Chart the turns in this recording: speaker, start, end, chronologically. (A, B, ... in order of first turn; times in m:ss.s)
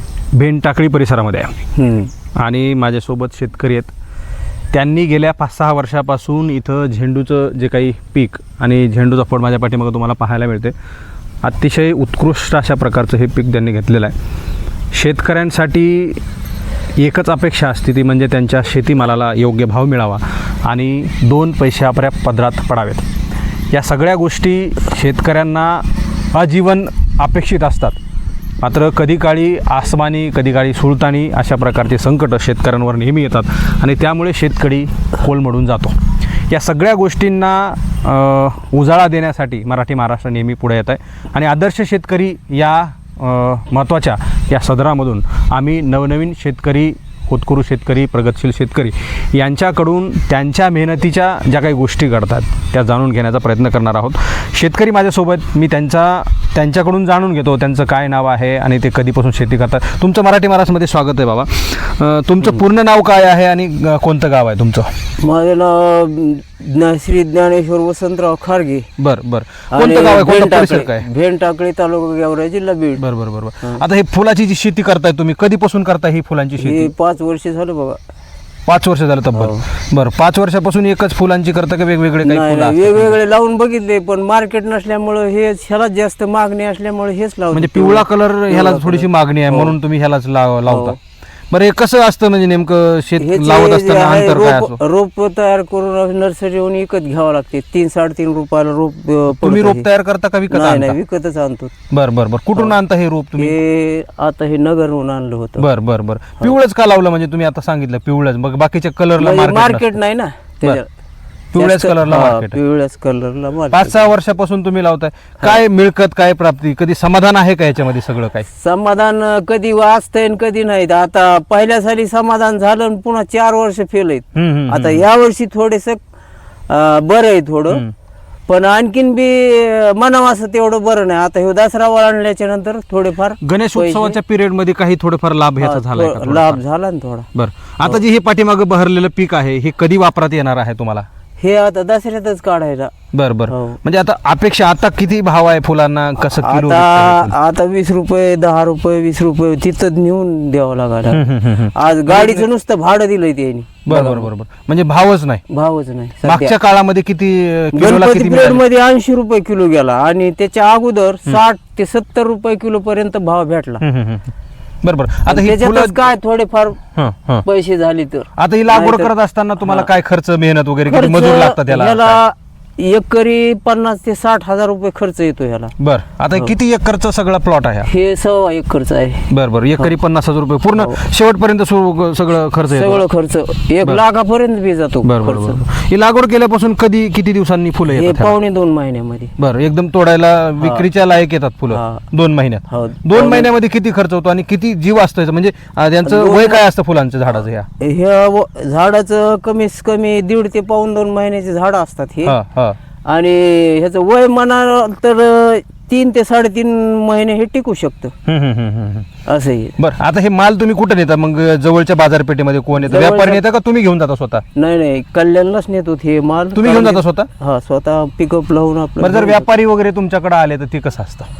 0:00.3-0:01.5 A
0:01.8-0:02.1 B
0:02.4-0:03.9 A
0:04.7-0:10.7 A
0:11.4-0:14.1 A
0:14.9-0:16.2 A
0:17.0-0:23.1 A
0:23.7-0:28.0 A
0:28.6-0:36.0 A
0:36.5-1:04.9 A
1:05.2-1:08.9 B
1:09.0-1:11.1 A
1:09.7-1:13.0 B
1:13.0-1:16.9 A
1:16.6-1:18.0 B
1:18.6-1:23.1 A
1:19.4-1:19.6 B
1:22.2-1:29.7 B
1:27.5-1:31.0 A
1:30.6-1:31.0 B
1:31.5-1:34.8 A
1:33.2-1:39.9 B
1:39.4-1:41.0 A
1:40.5-1:41.7 B
1:41.9-1:43.6 A
1:43.4-1:45.7 B
1:45.6-1:49.9 A
1:49.2-1:50.9 B
1:51.5-1:52.6 A
1:51.6-1:54.0 B
1:53.7-1:58.4 A
1:58.5-2:06.0 B
2:04.3-2:05.0 A
2:06.7-2:07.8 B
2:08.5-2:14.2 B
2:13.4-2:16.6 A
2:15.6-2:17.3 B
2:17.3-2:21.1 A
2:21.4-2:22.9 B
2:23.1-2:27.3 A
2:23.5-2:23.8 B
2:26.3-2:34.3 B
2:31.1-2:32.5 A
2:33.8-2:35.4 A
2:35.5-2:36.5 B
2:36.2-2:38.6 A
2:37.7-2:43.8 B
2:43.8-2:46.0 A
2:45.3-2:46.8 B
2:47.0-2:47.4 A
2:47.4-2:49.1 B
2:48.4-2:52.2 A
2:49.6-2:49.9 B
2:50.8-2:55.7 B
2:55.8-2:57.9 A
2:57.8-2:59.9 B
2:59.3-3:03.0 A
3:02.7-3:05.6 B
3:05.0-3:08.3 A
3:07.9-3:09.3 B
3:09.4-3:17.7 A
3:10.6-3:10.8 B
3:11.7-3:12.0 B
3:12.7-3:13.5 B
3:16.0-3:16.6 B
3:17.8-3:22.4 B
3:22.2-3:22.8 A
3:23.0-3:28.1 B
3:28.3-3:29.1 A
3:29.2-3:29.8 B
3:29.8-3:34.4 A
3:32.8-3:33.4 B
3:34.5-3:39.4 B
3:36.6-3:37.3 A
3:39.0-3:41.3 A